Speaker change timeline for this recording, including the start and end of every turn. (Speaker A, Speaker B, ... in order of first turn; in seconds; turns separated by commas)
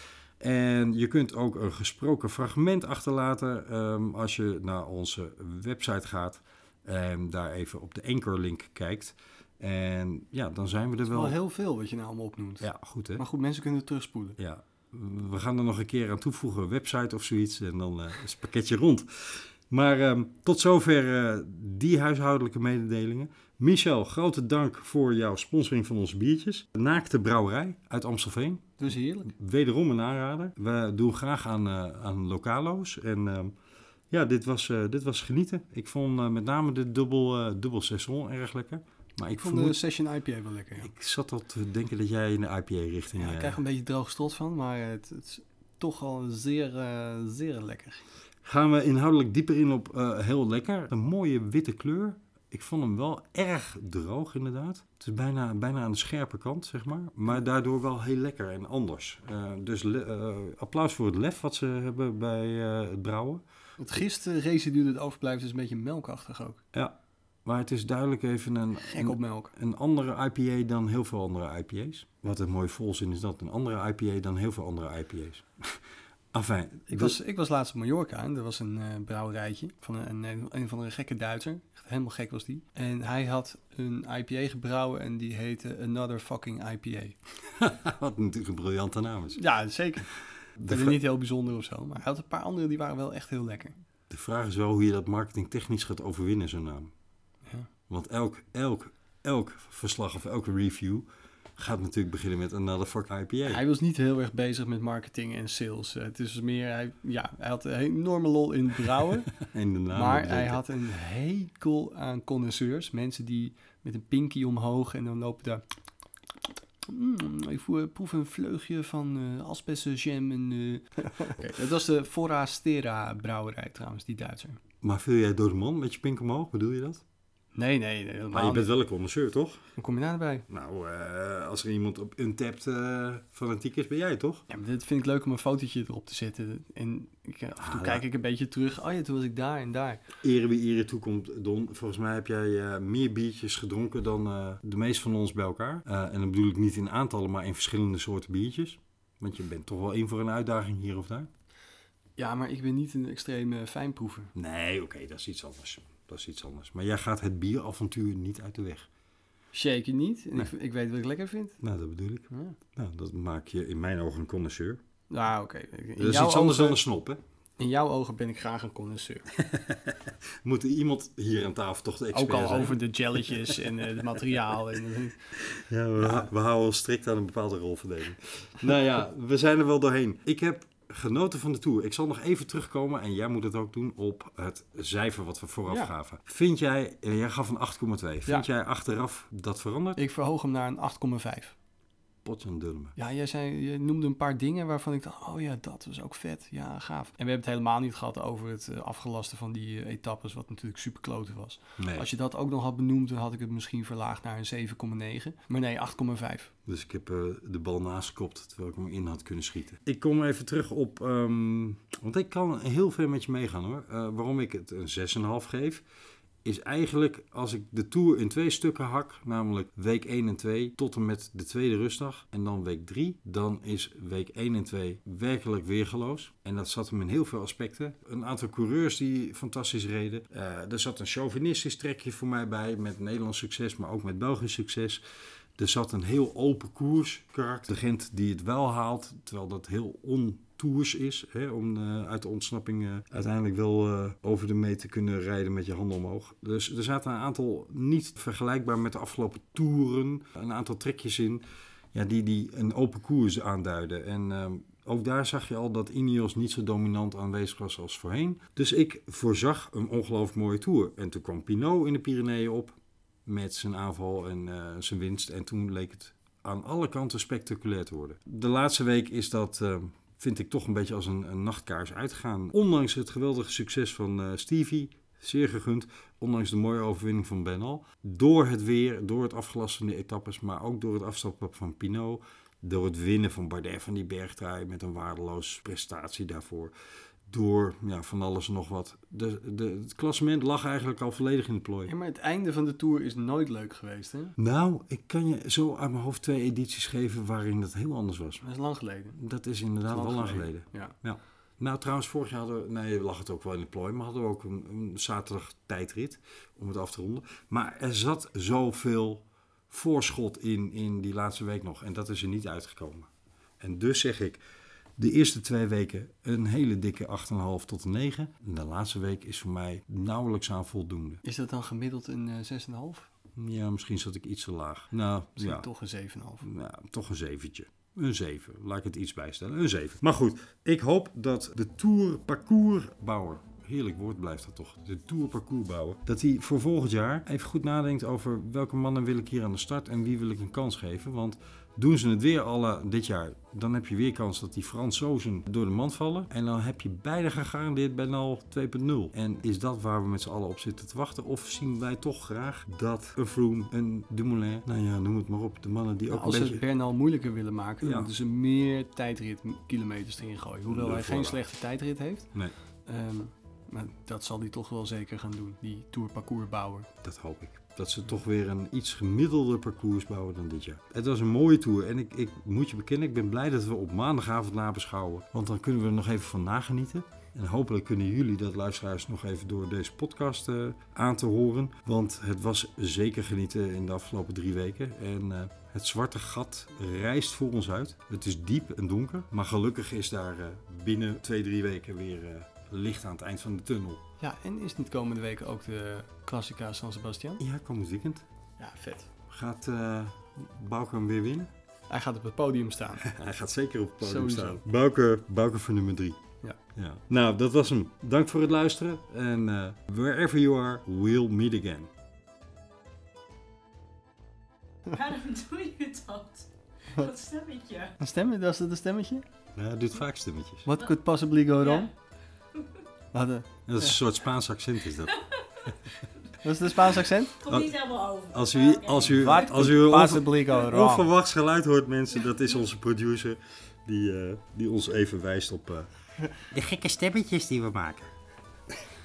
Speaker A: 0.4-11.4, Speaker B: 11.1-14.4, Speaker A: 12.6-13.2, Speaker A: 14.4-28.8, Speaker B: 28.8-29.3, Speaker A: 29.3-33.6, Speaker A: 34.1-39.8, Speaker B: 39.3-40.9, Speaker A: 40.8-43.6, Speaker B: 43.2-48.0, Speaker A: 48.4-63.4, Speaker B: 63.8-66.6, Speaker A: 66.7-75.8, Speaker B: 68.8-69.5, Speaker A: 76.3-77.2, Speaker B: 76.9-87.2, Speaker A: 87.5-89.4, Speaker B: 89.3-90.1, Speaker A: 90.6-91.0, Speaker B: 90.7-93.8, Speaker A: 94.1-96.9, Speaker A: 97.9-101.1, Speaker A: 101.6-103.6, Speaker B: 103.5-109.3, Speaker A: 109.4-110.7, Speaker B: 109.9-115.6, Speaker B: 116.9-124.6, Speaker A: 124.8-127.0, Speaker B: 127.5-128.7, Speaker A: 128.3-129.6, Speaker B: 129.8-130.5, Speaker A: 130.5-134.4, Speaker B: 134.5-140.1, Speaker A: 137.6-138.0, Speaker A: 140.2-151.3, Speaker B: 152.2-154.3, Speaker A: 154.3-158.9, Speaker B: 159.5-161.6, Speaker A: 161.6-164.8, Speaker B: 162.3-162.6, Speaker B: 165.1-166.8, Speaker A: 166.0-167.2, Speaker B: 167.6-169.3, Speaker A: 169.3-174.2, Speaker B: 172.1-175.3, Speaker A: 175.4-190.0, Speaker B: 176.0-176.3, Speaker B: 185.7-185.9, Speaker B: 190.0-191.6, Speaker A: 192.2-192.9, Speaker B: 193.0-206.5, Speaker A: 201.8-202.1, Speaker A: 206.7-215.8, Speaker A: 216.4-235.0, Speaker A: 235.6-286.7, Speaker A: 287.3-291.9, Speaker B: 291.9-294.3, Speaker A: 294.4-298.4, Speaker B: 298.4-299.2, Speaker A: 299.2-313.1, Speaker B: 299.9-300.9, Speaker A: 313.6-314.4, Speaker A: 315.0-321.2, Speaker B: 321.2-323.1, Speaker A: 323.4-325.7, Speaker B: 325.4-326.5, Speaker A: 326.4-356.6, Speaker B: 356.1-362.3, Speaker A: 357.8-358.1, Speaker A: 360.7-361.4, Speaker B: 362.9-366.9, Speaker A: 367.0-394.0, Speaker B: 394.2-397.4, Speaker A: 397.4-398.2, Speaker B: 398.6-399.1, Speaker A: 399.3-401.5, Speaker B: 401.9-403.1, Speaker A: 403.0-406.2, Speaker B: 404.0-404.6, Speaker A: 406.7-411.9, Speaker C: 414.9-417.9, Speaker B: 418.0-419.2, Speaker A: 419.6-420.7, Speaker B: 420.6-421.9, Speaker C: 421.6-421.9, Speaker B: 423.1-424.0, Speaker A: 423.7-425.7, Speaker B: 426.4-427.4, Speaker C: 427.4-429.5, Speaker A: 427.4-438.1, Speaker B: 429.1-431.1